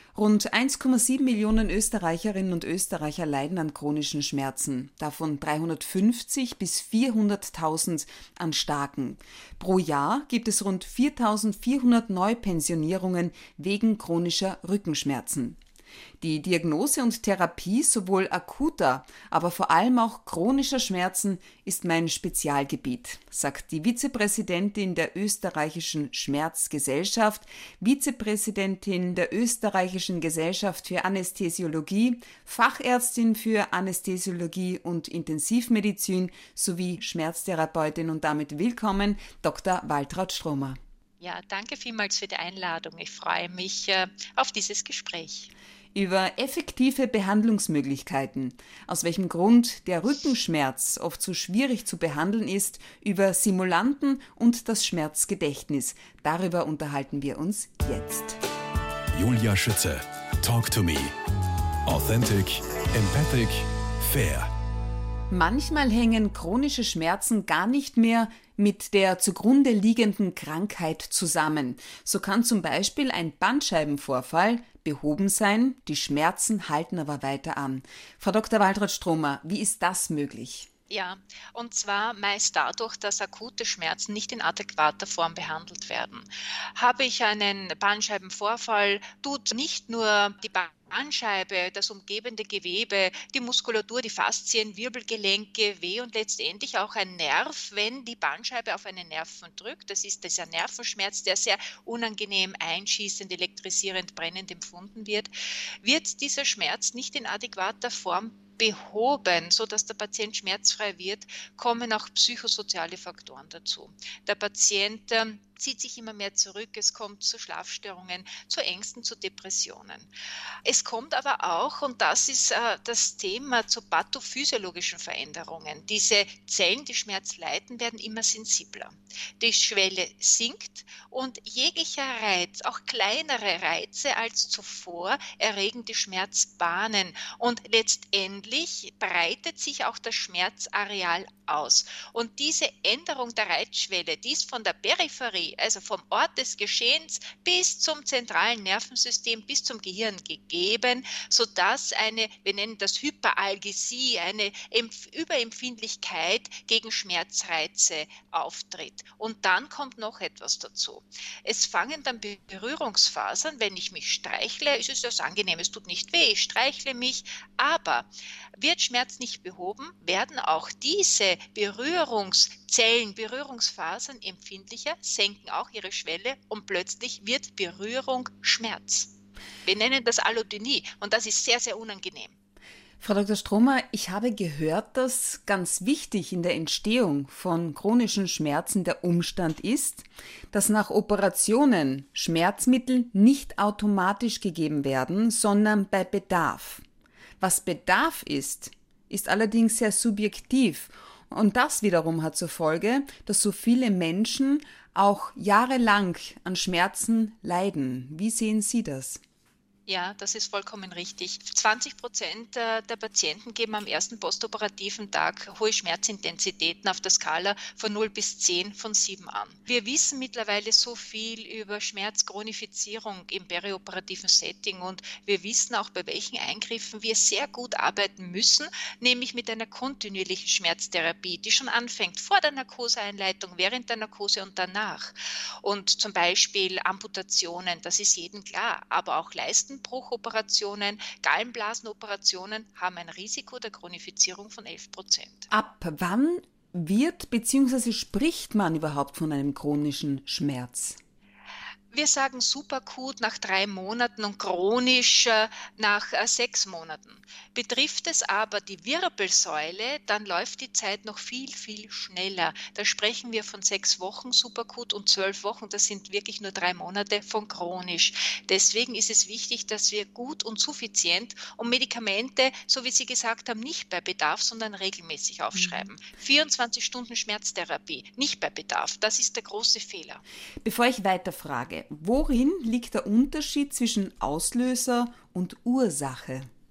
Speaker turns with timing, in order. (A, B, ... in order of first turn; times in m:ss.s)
0:00.1-0:15.6 A
0:16.2-0:40.8 A
0:41.2-0:45.5 B
0:45.9-0:58.4 A
0:59.2-1:01.1 C
1:01.8-1:04.5 C
1:05.3-1:20.7 A
1:20.9-1:45.3 B
1:45.8-2:00.1 B
2:00.6-2:59.1 B
2:59.6-3:02.3 B
3:03.0-3:16.8 A
3:17.4-3:29.2 A
3:29.9-4:05.5 B
4:05.5-4:11.0 A
4:11.9-4:40.2 B
4:35.5-4:35.9 A
4:40.6-4:46.5 A